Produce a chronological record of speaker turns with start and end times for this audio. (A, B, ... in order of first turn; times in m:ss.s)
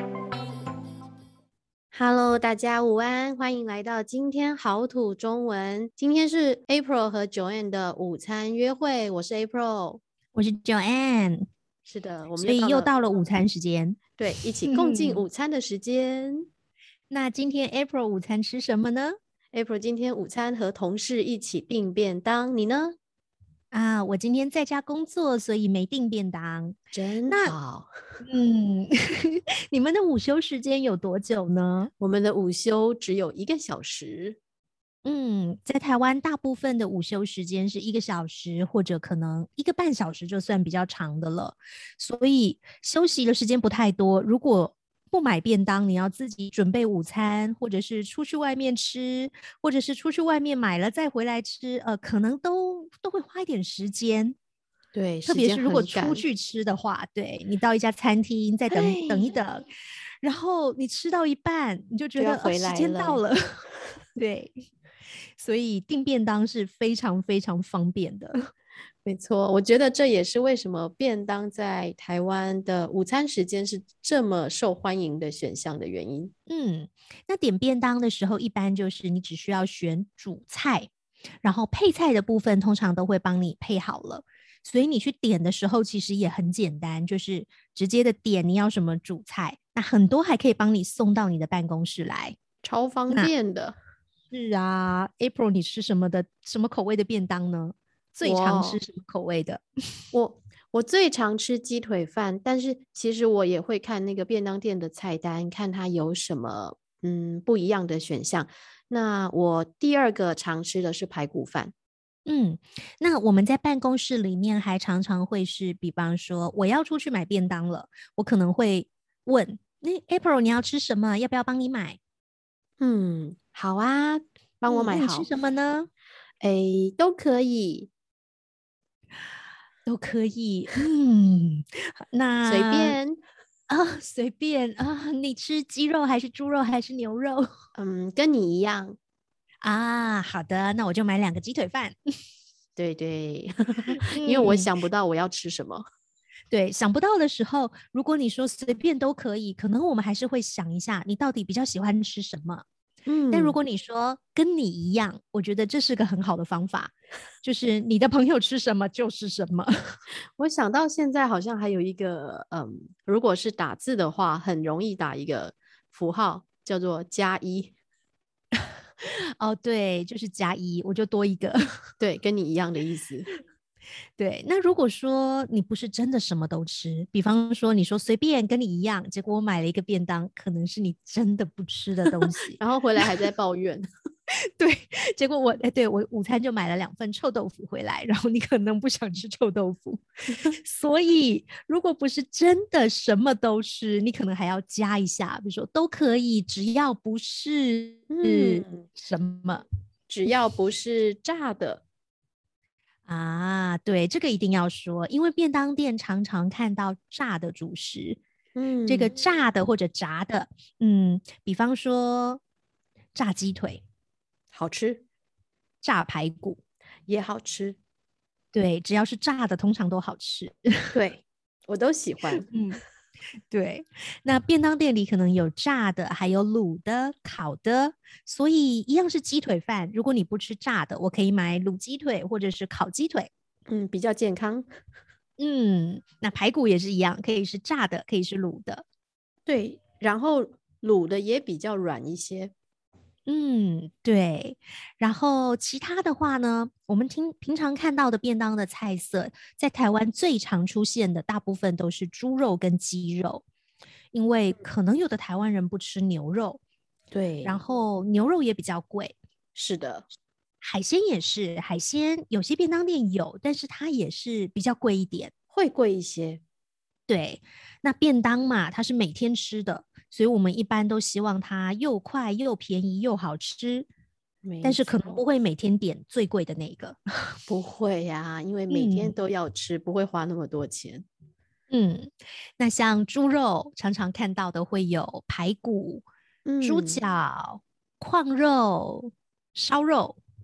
0:01.9-0:10.0 A
0:10.3-0:11.5 B
0:11.8-0:12.9 A
0:12.4-0:14.0 B
0:14.2-0:16.5 A
0:14.6-0:15.2 B
0:17.1-0:19.1 B
0:19.5-0:23.0 A
0:23.7-0:26.8 B
0:26.9-0:27.9 A
0:27.3-0:27.6 B
0:28.2-0:31.9 B
0:32.0-0:34.4 A
0:35.0-0:54.4 B
0:54.9-0:56.2 A
0:55.2-0:59.6 B
0:58.7-0:59.4 A
1:00.2-1:03.6 B
1:02.2-1:03.2 A
1:04.2-1:04.6 B
1:05.4-1:08.5 B
1:09.0-1:16.3 A
1:16.5-1:20.9 B
1:21.4-1:32.4 B
1:32.6-1:33.8 A
1:34.3-1:39.6 B
1:38.2-1:38.8 A
1:40.1-1:51.7 A
1:52.2-2:02.0 B
2:02.8-2:05.3 A
2:04.7-2:05.9 B
2:06.4-2:07.9 A
2:09.8-2:13.0 B
2:12.4-2:13.2 A
2:13.7-2:17.5 B
2:17.7-2:19.0 A
2:19.6-2:22.0 B
2:22.8-2:25.8 A
2:23.9-2:24.7 B
2:26.5-2:32.6 B
2:33.0-2:33.6 A
2:33.3-2:40.0 B
2:40.4-2:47.7 A
2:49.0-2:51.7 B
2:52.0-2:53.3 A
2:54.2-3:02.6 B
3:02.2-3:03.9 A
3:04.3-3:10.0 B
3:10.6-3:19.6 B
3:18.1-3:18.8 A
3:20.1-3:21.8 A
3:23.0-3:28.2 B
3:28.5-3:29.1 A
3:28.9-3:32.4 B
3:33.1-3:33.8 B
3:34.5-3:35.0 A
3:35.8-3:36.6 B
3:37.1-3:37.8 A
3:38.5-3:40.9 B
3:40.9-3:42.5 A
3:42.4-3:42.8 B
3:43.5-3:53.3 B
3:53.7-3:54.7 A
3:55.4-3:58.8 B
3:59.4-4:02.5 A
4:03.2-4:13.4 B
4:14.1-4:16.6 B
4:17.1-4:17.6 A
4:17.4-4:19.2 B
4:19.5-4:20.0 A
4:20.6-4:25.3 B
4:25.5-4:26.4 A
4:27.1-4:33.9 B
4:34.4-4:35.2 A
4:34.6-4:37.0 B
4:37.5-4:41.1 A
4:38.7-4:39.2 B
4:41.7-4:46.0 B
4:46.4-4:47.0 A
4:46.6-4:50.2 B